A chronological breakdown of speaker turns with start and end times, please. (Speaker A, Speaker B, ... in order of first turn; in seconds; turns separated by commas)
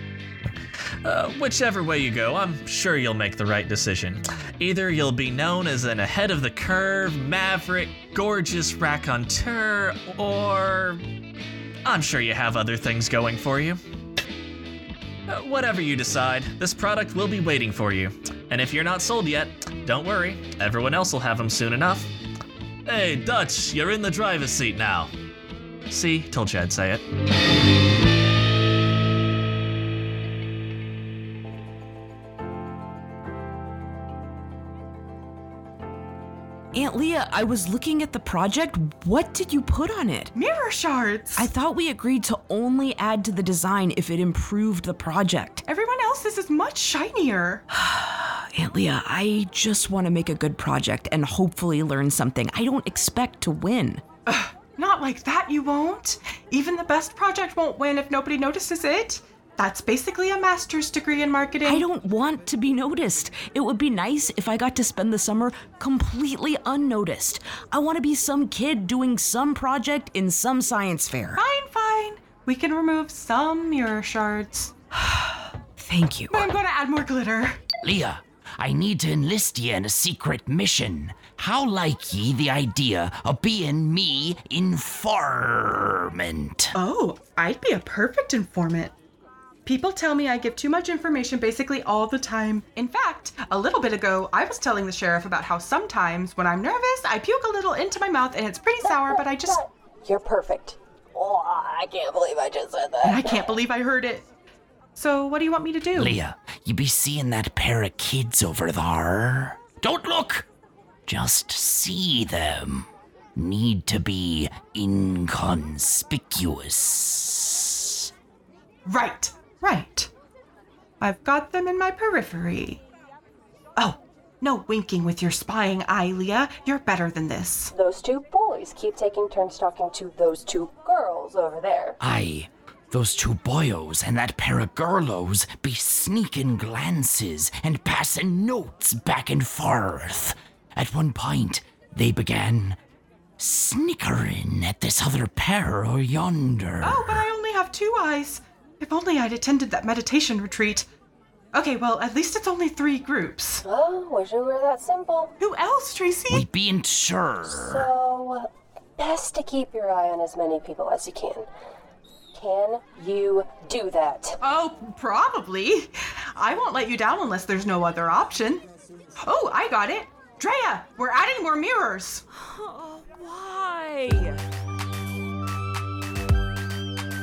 Speaker A: 1.0-11.0, Speaker A: 11.8-13.8, Speaker A: 15.3-22.1, Speaker A: 22.9-25.1, Speaker A: 25.9-27.0, Speaker B: 36.7-40.3, Speaker C: 40.3-41.5, Speaker B: 41.4-45.6, Speaker C: 45.7-47.6, Speaker B: 47.7-54.0, Speaker C: 54.3-61.8, Speaker B: 61.6-71.4, Speaker C: 71.3-74.8, Speaker B: 75.8-76.5, Speaker C: 76.3-77.6, Speaker D: 77.8-86.7, Speaker C: 86.7-88.9, Speaker C: 89.7-99.6, Speaker E: 98.8-103.4, Speaker C: 103.0-104.3, Speaker C: 105.0-106.2, Speaker D: 105.9-110.5, Speaker D: 111.0-118.1, Speaker C: 118.8-120.1, Speaker C: 121.0-122.8, Speaker C: 123.8-127.7, Speaker E: 127.7-132.0, Speaker D: 132.0-142.8, Speaker D: 143.4-147.2, Speaker C: 146.8-150.8, Speaker C: 151.5-153.6, Speaker E: 153.6-155.3, Speaker C: 155.4-156.4, Speaker D: 156.3-157.9, Speaker E: 157.5-161.5, Speaker E: 162.3-164.4, Speaker C: 164.4-168.7, Speaker C: 169.2-172.2, Speaker B: 172.4-174.3